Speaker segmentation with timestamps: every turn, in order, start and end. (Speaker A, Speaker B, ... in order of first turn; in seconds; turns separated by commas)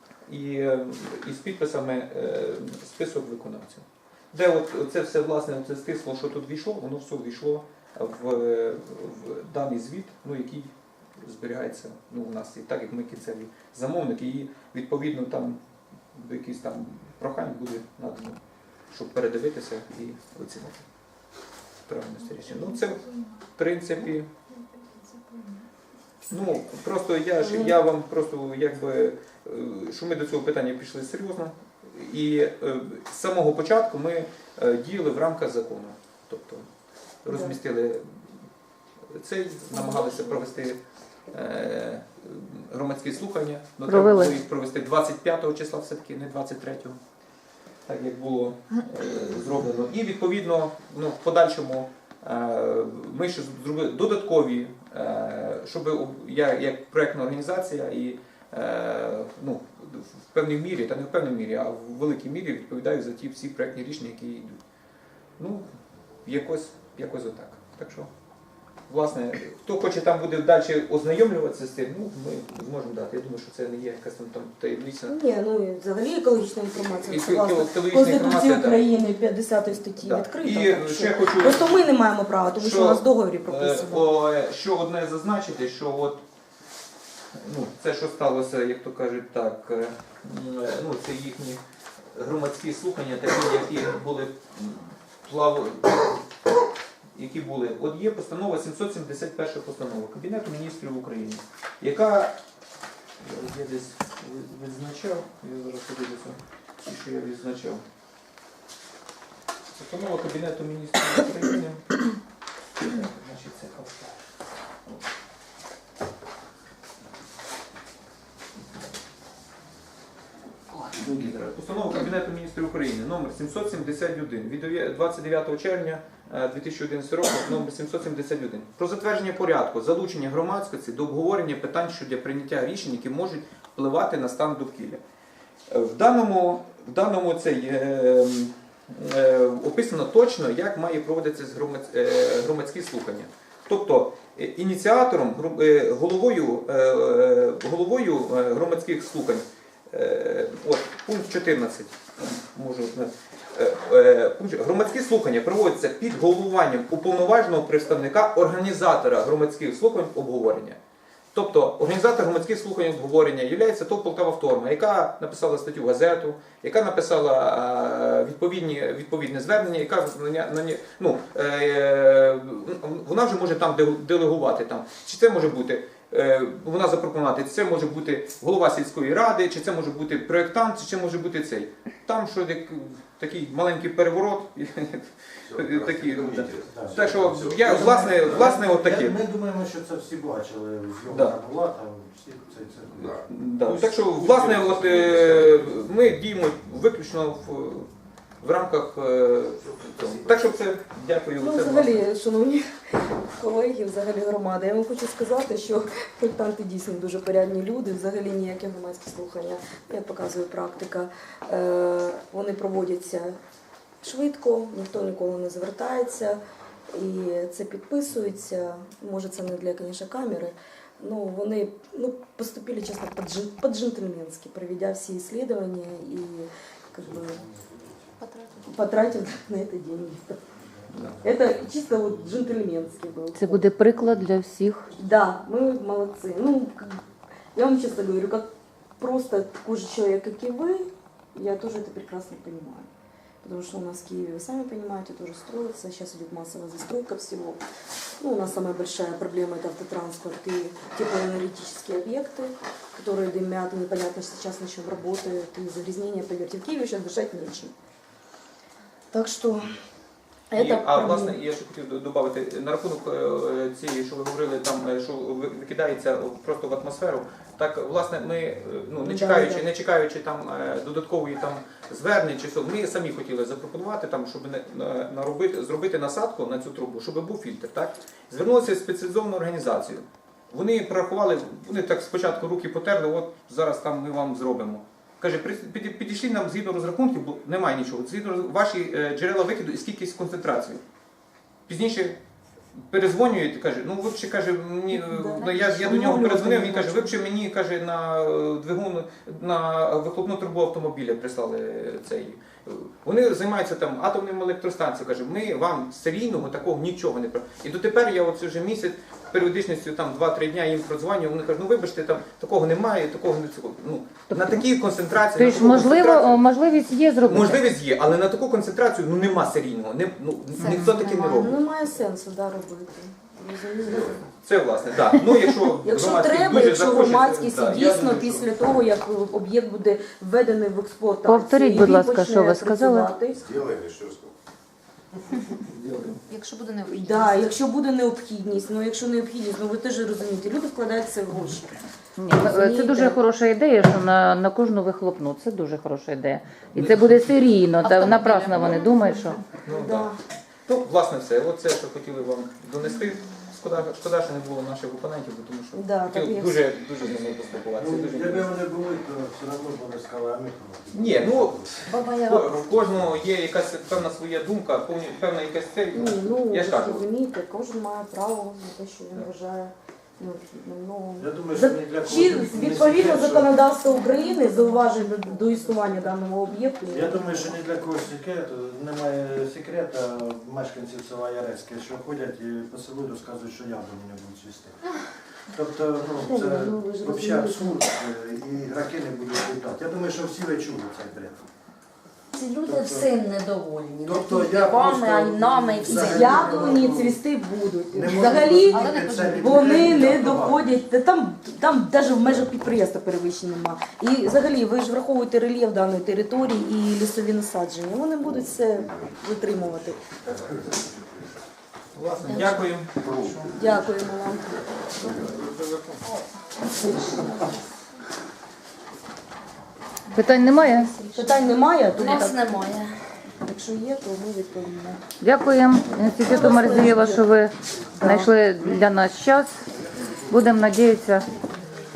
Speaker A: 0.2-15.6, Speaker A: 16.1-18.4, Speaker A: 18.9-20.8, Speaker A: 21.9-24.3, Speaker A: 26.3-36.7, Speaker B: 27.4-27.7, Speaker A: 37.2-38.1, Speaker B: 37.3-37.6, Speaker A: 39.1-40.8, Speaker A: 41.3-47.0, Speaker C: 43.8-44.3, Speaker A: 47.9-64.5, Speaker A: 65.4-65.7, Speaker A: 66.2-68.1, Speaker A: 68.9-75.2, Speaker B: 75.1-84.0, Speaker A: 77.1-78.8, Speaker A: 80.0-81.9, Speaker A: 82.6-86.2, Speaker A: 87.3-91.6, Speaker A: 92.1-96.2, Speaker A: 97.1-102.3, Speaker A: 103.2-107.8, Speaker A: 109.7-112.0, Speaker A: 112.8-114.2, Speaker A: 120.7-135.0, Speaker A: 135.7-160.8, Speaker A: 161.3-189.2, Speaker D: 185.4-187.8, Speaker E: 186.6-193.2, Speaker A: 191.1-191.4, Speaker A: 193.0-197.9, Speaker D: 194.2-195.7, Speaker E: 194.2-194.5, Speaker A: 198.4-202.0, Speaker D: 199.7-200.4, Speaker B: 201.4-213.4, Speaker B: 214.0-227.4, Speaker F: 228.2-228.6, Speaker B: 228.6-230.4, Speaker A: 230.9-231.2, Speaker B: 231.2-233.7, Speaker C: 233.3-234.9, Speaker B: 234.9-237.0, Speaker B: 237.5-238.5, Speaker B: 239.0-242.9, Speaker B: 243.4-247.6, Speaker B: 248.2-257.7, Speaker B: 259.1-259.7, Speaker B: 260.5-261.4, Speaker A: 260.5-290.8, Speaker B: 269.0-269.7, Speaker A: 291.7-292.2, Speaker A: 292.9-316.4, Speaker B: 294.9-297.2, Speaker C: 295.4-295.9, Speaker C: 314.3-314.6, Speaker C: 315.3-317.6, Speaker A: 317.2-321.6, Speaker C: 320.6-321.5, Speaker B: 321.3-324.2, Speaker D: 323.9-324.2, Speaker A: 324.3-328.8, Speaker B: 325.8-333.4, Speaker C: 331.2-333.1, Speaker D: 333.3-334.3, Speaker A: 335.5-336.2, Speaker F: 336.3-337.5, Speaker B: 336.9-341.7, Speaker C: 342.2-349.4, Speaker B: 342.3-343.2, Speaker A: 346.7-347.3, Speaker F: 347.8-349.0, Speaker A: 348.1-348.9, Speaker B: 349.6-350.1, Speaker A: 349.6-350.1, Speaker A: 350.7-358.5, Speaker B: 355.7-356.7, Speaker E: 357.8-361.9, Speaker A: 360.9-367.1, Speaker B: 361.9-362.6, Speaker E: 362.8-363.1, Speaker B: 365.9-377.6, Speaker E: 371.2-373.5, Speaker E: 376.9-384.8, Speaker E: 385.5-391.4, Speaker B: 386.2-387.8, Speaker F: 392.3-396.8, Speaker E: 392.6-393.2, Speaker E: 394.0-397.2, Speaker B: 395.9-410.0, Speaker E: 397.9-400.8, Speaker F: 398.2-399.9, Speaker D: 410.1-411.0, Speaker A: 411.9-413.1, Speaker F: 412.2-412.7, Speaker D: 412.9-414.0, Speaker B: 413.5-415.3, Speaker D: 415.0-415.4, Speaker B: 416.6-417.6, Speaker C: 420.1-420.9, Speaker F: 420.6-423.0, Speaker B: 421.1-422.5, Speaker B: 423.4-425.0, Speaker C: 425.2-429.6, Speaker B: 426.2-427.4, Speaker B: 427.9-428.3, Speaker C: 430.3-431.3